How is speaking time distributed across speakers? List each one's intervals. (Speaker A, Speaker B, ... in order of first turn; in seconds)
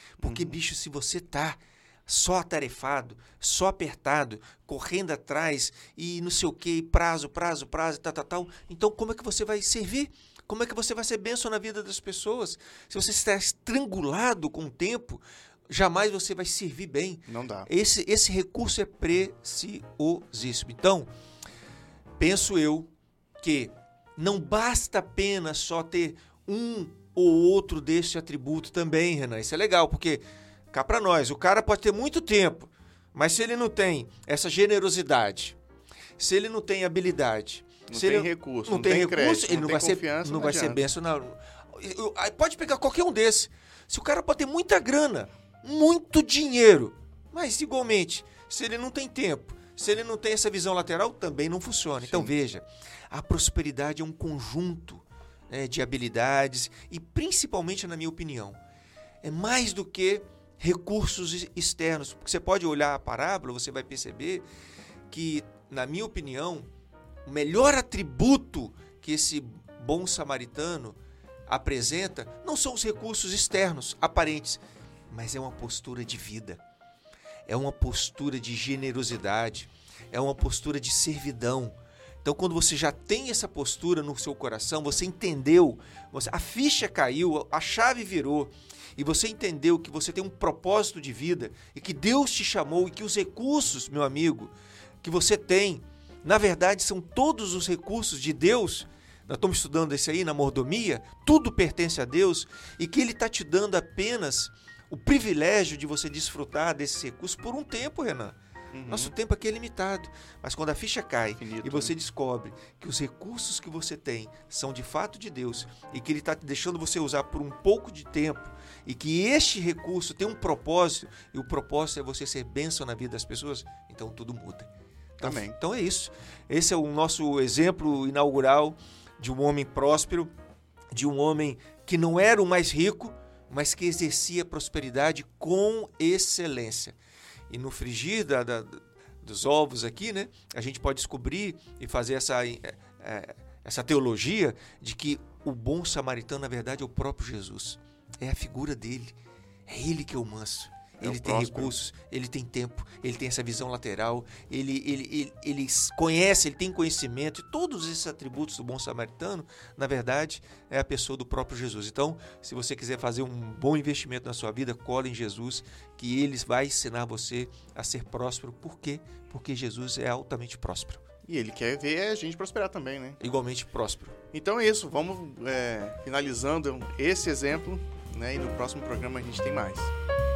Speaker A: 0.2-21.1, 22.2-22.9, 23.4-35.5, 36.2-58.6, 59.2-64.4, 65.1-66.7, 67.2-71.0, 71.5-76.6, 77.5-130.3, 130.9-137.0, 137.5-149.1, 149.7-171.0, 173.2-174.2
Speaker B: 0.2-0.6, 17.3-17.7, 37.9-40.8, 52.0-52.3, 108.7-109.1, 111.4-111.9, 125.2-125.5, 151.0-151.8, 171.2-173.2, 174.3-179.9